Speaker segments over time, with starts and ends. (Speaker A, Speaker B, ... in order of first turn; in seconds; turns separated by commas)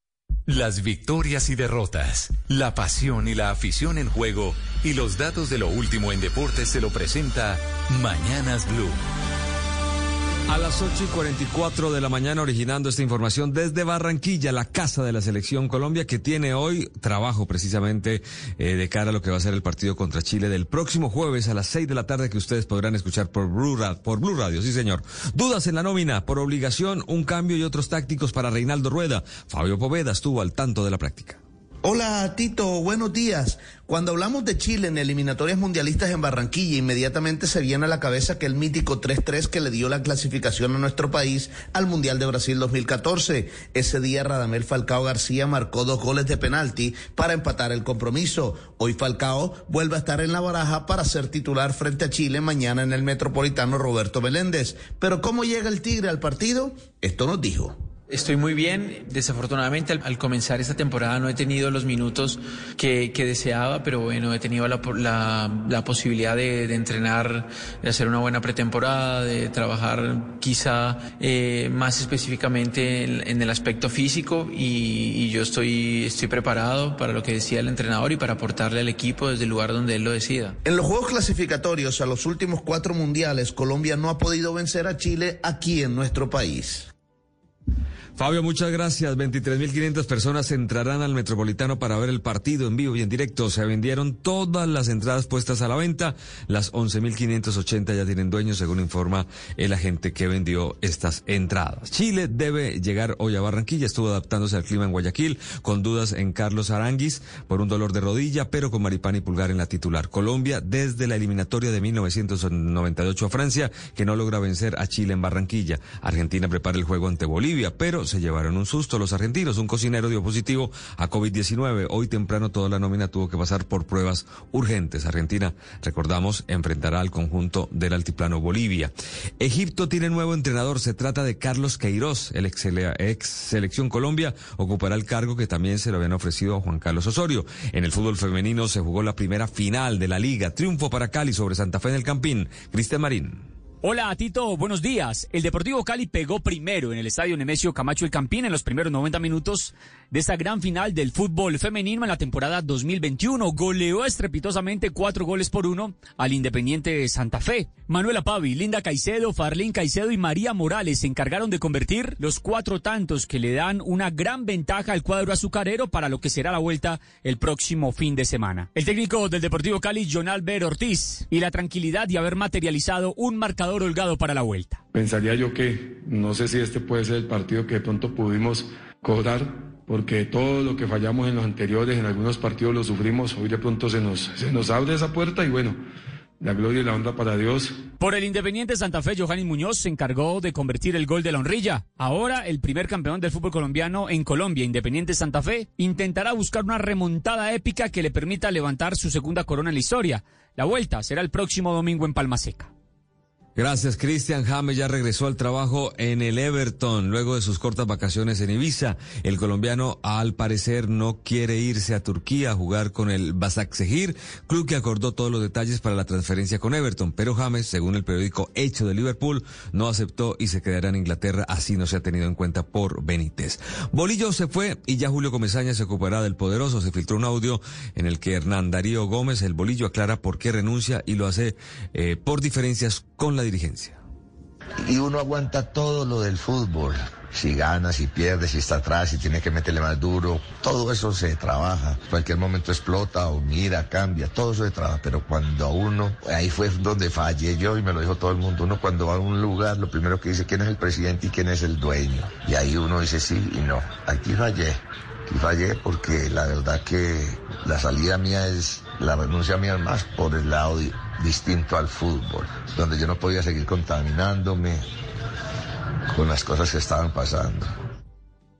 Speaker A: 0.5-9.0, Speaker B: 10.5-31.4, Speaker C: 31.8-57.7, Speaker D: 58.1-80.5, Speaker C: 80.6-86.9, Speaker B: 88.2-143.5, Speaker E: 143.8-174.8, Speaker F: 174.9-185.8, Speaker F: 186.4-187.7, Speaker E: 188.0-202.7, Speaker B: 203.6-234.0, Speaker G: 234.8-264.8, Speaker G: 266.1-267.7